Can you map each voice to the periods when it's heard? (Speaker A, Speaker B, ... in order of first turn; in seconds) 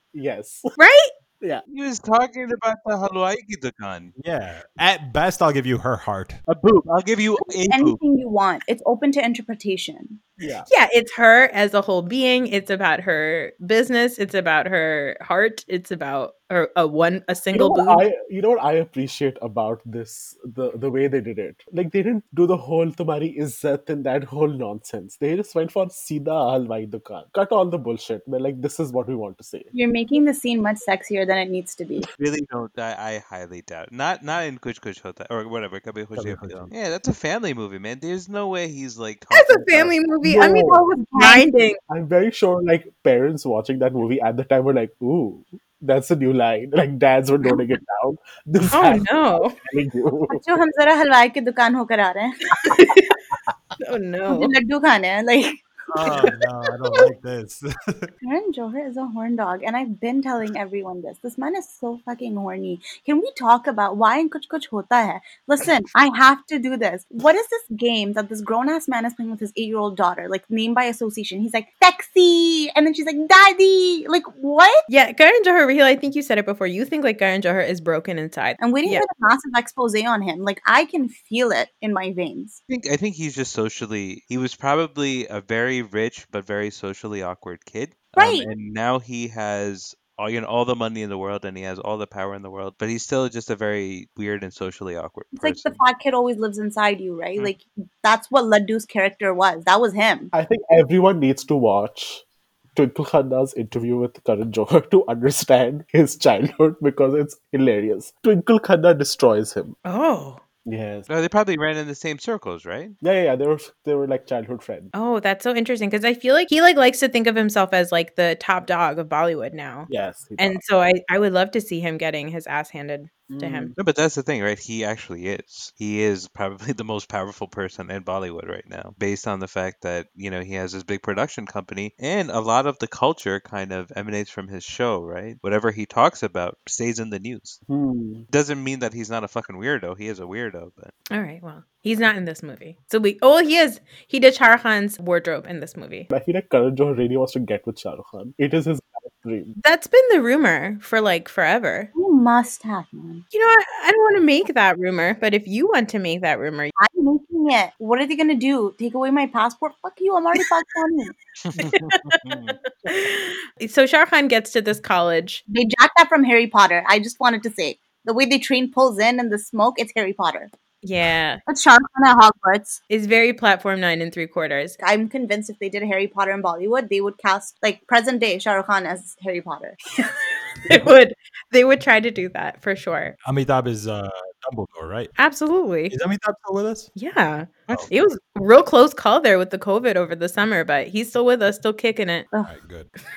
Speaker A: 0.1-0.7, 10.4-10.7, 17.5-29.7, 40.2-40.8, 41.9-50.4, 100.3-102.2, 102.7-109.8, 110.7-111.0, 113.0-114.9, 119.9-120.6, 123.3-123.7, 137.7-138.2, 146.1-149.5
Speaker B: 0.8-1.1, 10.7-18.0, 39.3-41.8, 48.7-49.6, 52.6-53.1, 53.8-54.5, 74.9-79.0, 109.8-110.4, 114.9-123.7, 141.1-146.1, 149.6-151.9, 153.3-156.7, 161.6-162.2, 162.8-165.4, 170.8-171.4, 172.9-174.8, 180.0-183.2, 185.2-185.9, 186.9-192.3
Speaker C: 1.7-4.1, 6.5-8.0, 32.2-39.9, 82.7-95.8, 111.1-113.0, 123.8-137.6, 138.3-140.9, 161.4-162.6
Speaker D: 4.2-6.4, 36.2-36.7, 55.9-58.1, 183.2-185.1, 185.9-186.9, 192.5-192.9
Speaker E: 7.7-10.2, 29.7-32.1, 40.3-41.5, 50.3-52.7, 54.3-56.3, 58.2-74.8, 78.6-82.6, 88.2-88.5, 95.3-100.3, 151.9-153.2, 156.8-161.1, 165.5-170.5, 171.5-172.8, 174.8-179.8